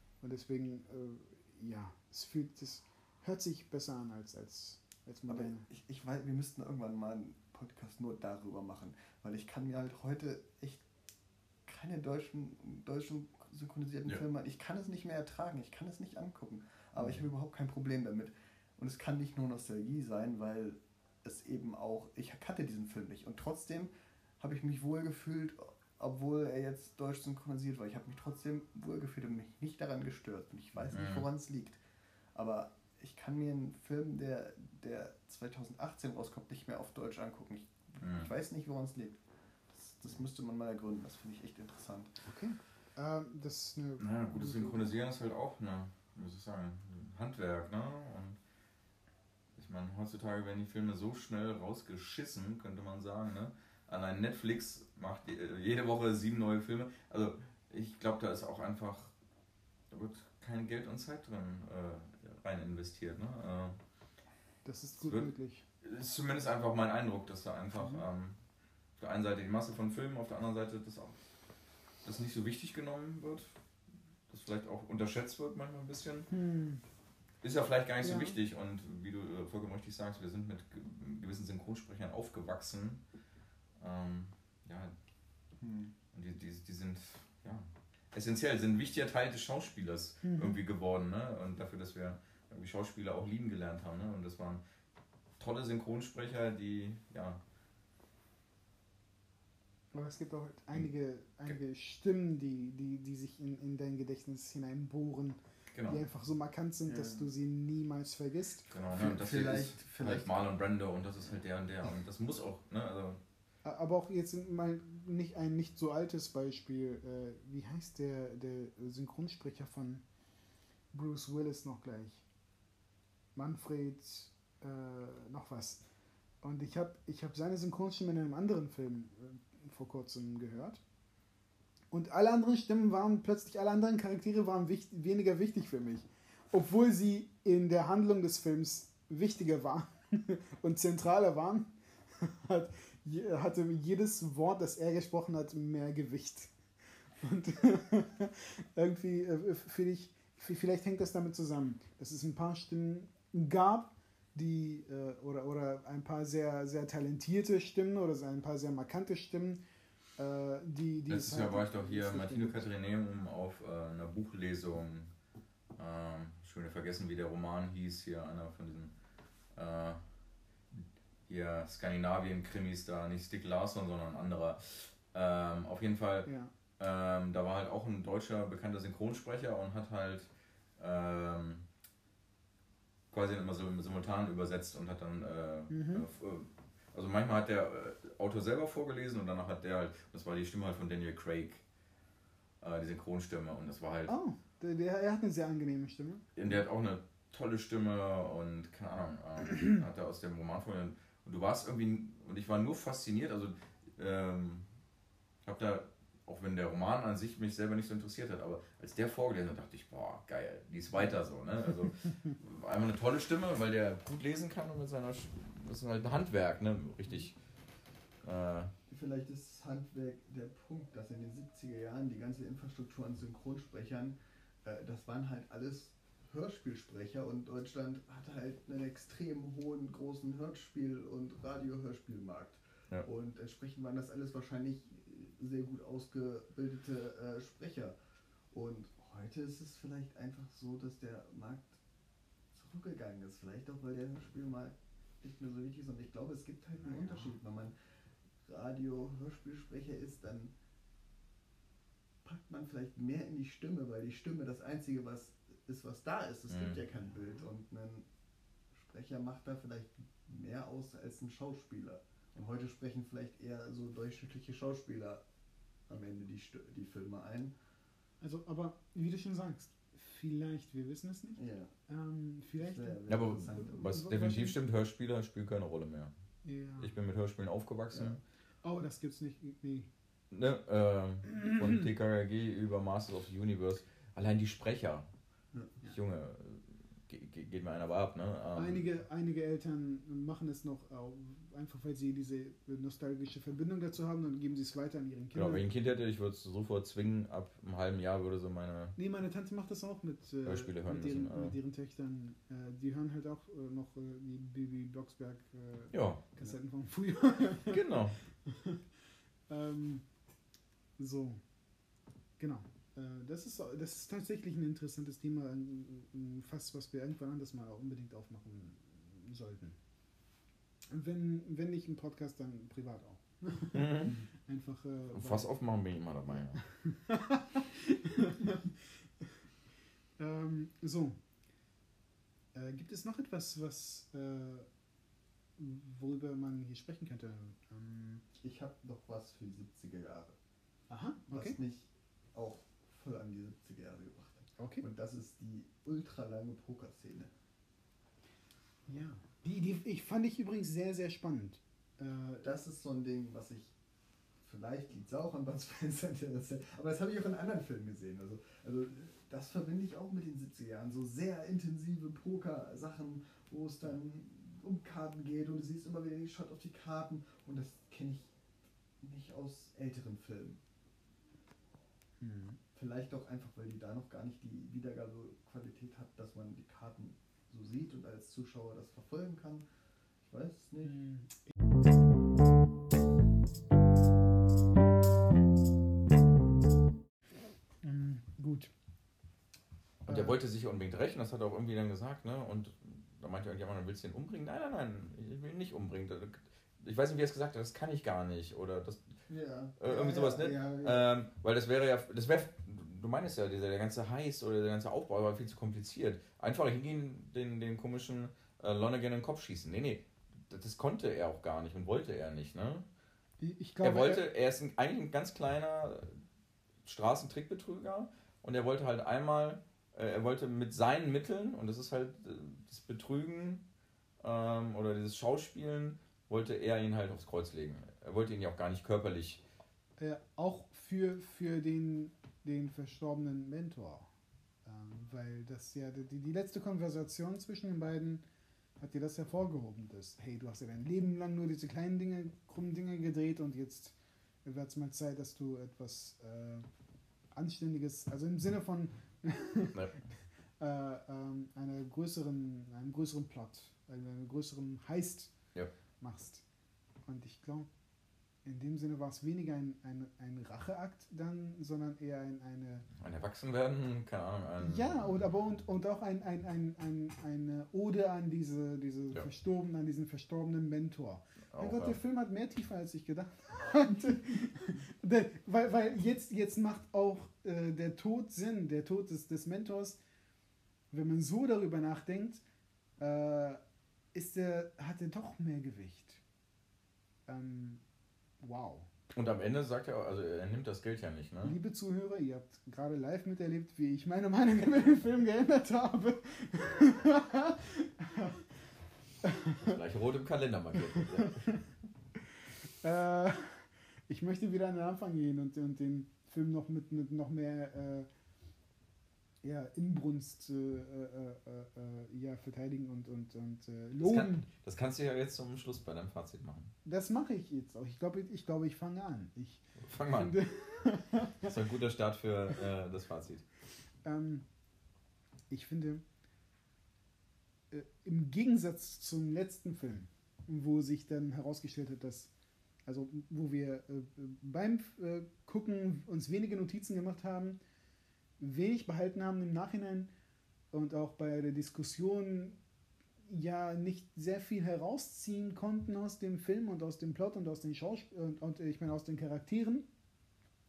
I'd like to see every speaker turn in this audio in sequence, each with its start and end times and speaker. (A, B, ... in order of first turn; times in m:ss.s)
0:00.2-0:05.7 A
0:05.3-0:10.8 B
0:11.6-0:31.8 B
0:30.9-0:31.3 C
0:32.3-0:39.2 B
0:38.0-0:38.3 C
0:39.7-0:42.2 B
0:42.2-0:44.9 A
0:44.0-0:48.4 C
0:49.6-0:59.1 C
0:59.9-1:03.8 C
1:04.6-1:05.6 A
1:05.0-1:05.3 C
1:05.8-1:08.4 C
1:07.8-1:08.0 A
1:09.0-1:11.2 C
1:12.0-1:13.5 C
1:14.3-1:16.3 C
1:16.3-1:16.8 A
1:17.4-1:23.0 C
1:18.0-1:18.3 A
1:23.8-1:24.9 C
1:25.6-1:25.9 B
1:26.1-1:34.6 C
1:30.2-1:30.6 A
1:35.4-1:37.4 C
1:39.9-1:48.7 A
1:45.7-1:46.0 C
1:46.8-1:47.3 B
1:48.7-1:53.2 C
1:48.9-1:50.4 B
1:53.6-2:00.0 A
2:00.9-2:02.2 A
2:03.3-2:05.8 A
2:06.4-2:10.8 A
2:11.9-2:26.5 A
2:27.2-2:39.6 A
2:40.2-2:42.7 A
2:41.1-2:45.1 C
2:45.7-2:48.9 C
2:49.5-2:50.0 C
2:50.7-3:01.6 C
2:56.2-2:56.5 A
3:03.1-3:11.6 C
3:05.7-3:06.1 A
3:12.6-3:14.1 C
3:14.1-3:16.3 A
3:16.4-3:24.7 C
3:25.4-3:37.4 C
3:38.2-3:38.7 C
3:38.9-3:58.0 B
3:58.5-4:01.8 B
4:02.5-4:07.7 B
4:06.9-4:07.2 A
4:08.4-4:10.5 B
4:12.2-4:18.0 B
4:16.5-4:16.8 C
4:18.7-4:25.2 B
4:25.9-4:27.5 B
4:28.2-4:34.5 A
4:31.4-4:31.7 B
4:32.6-4:34.0 B
4:33.1-4:36.1 C
4:36.4-4:36.9 A
4:36.8-4:38.2 C
4:37.9-4:38.2 B
4:38.6-4:39.9 A
4:40.3-4:45.1 C
4:41.3-4:41.8 A
4:45.8-4:48.8 C
4:48.5-4:55.6 A
4:55.3-4:59.0 C
4:59.0-5:08.8 A
5:00.4-5:01.6 C
5:05.9-5:06.2 C
5:07.7-5:08.2 C
5:09.5-5:10.0 A
5:11.0-5:11.4 A
5:12.4-5:19.8 A
5:20.9-5:25.5 A
5:23.7-5:24.2 C
5:25.1-5:26.6 C
5:26.3-5:29.3 A
5:30.2-5:31.2 A
5:32.5-5:34.7 A
5:35.6-5:38.2 A
5:38.4-5:40.4 B
5:40.9-5:41.6 A
5:41.3-5:47.3 B
5:44.6-5:44.9 A
5:48.9-5:52.5 A
5:52.4-5:53.7 B
5:54.4-6:08.3 B
6:09.0-6:10.6 B
6:12.2-6:12.6 A
6:12.7-6:19.6 B
6:20.2-6:21.0 B
6:20.8-6:21.4 A
6:27.8-6:28.7 A
6:30.0-6:39.2 C
6:30.1-6:30.4 A
6:39.3-6:41.0 B
6:39.8-6:52.9 C
6:53.4-6:54.2 A
6:53.8-6:56.2 C
6:56.8-7:03.6 C
7:04.2-7:09.4 C
7:10.0-7:14.1 A
7:14.6-7:18.2 A
7:18.8-7:23.9 A
7:24.4-7:26.6 A
7:27.3-7:30.0 A
7:30.6-7:35.3 A
7:36.0-7:36.4 A
7:37.0-7:37.7 A
7:38.4-7:42.9 A
7:42.9-7:45.1 C
7:44.6-8:00.0 A
7:51.5-7:52.0 C
8:00.9-8:02.4 A
8:03.0-8:03.6 A
8:04.1-8:06.2 A
8:07.3-8:07.8 A
8:08.4-8:08.9 A
8:09.1-8:11.5 C
8:11.4-8:18.4 A
8:19.2-8:19.8 A
8:19.6-8:21.5 C
8:20.9-8:21.6 A
8:22.8-8:28.1 A
8:29.4-8:34.5 A
8:34.0-8:36.7 C
8:36.8-8:41.5 A
8:39.8-8:40.4 C
8:41.4-8:43.4 C
8:44.0-8:44.4 A
8:45.5-8:46.0 A
8:47.7-8:52.3 A
8:52.8-8:57.6 A
8:58.4-9:00.1 A
9:00.7-9:02.6 A
9:03.3-9:09.9 A